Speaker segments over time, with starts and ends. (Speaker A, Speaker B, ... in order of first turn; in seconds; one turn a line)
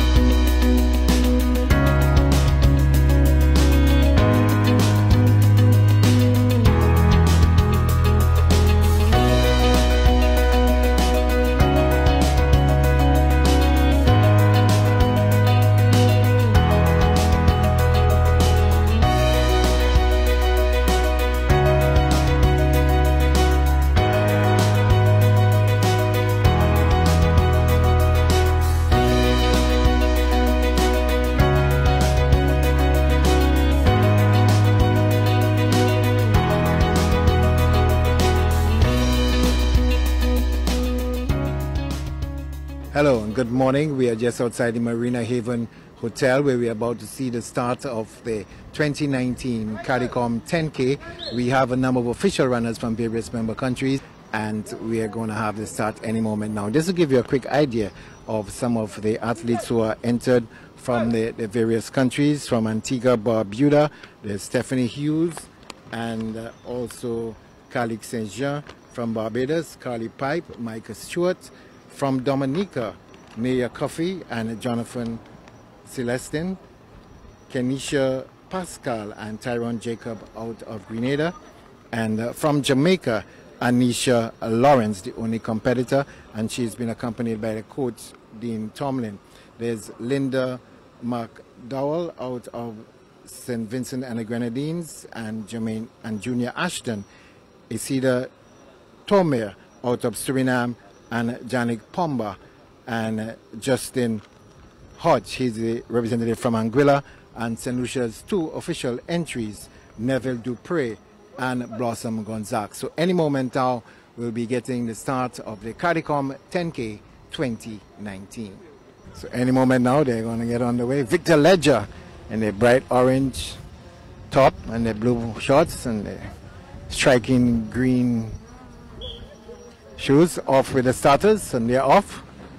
Speaker A: 42.9-75.2
Speaker A: 75.8-76.6
Speaker A: 77.5-81.3
Speaker A: 81.9-97.0
Speaker A: 97.7-98.3
Speaker A: 99.0-104.2
Speaker A: 105.0-118.6
Speaker A: 119.1-123.6
Speaker A: 124.3-126.3
Speaker A: 126.9-128.4
Speaker A: 130.0-132.2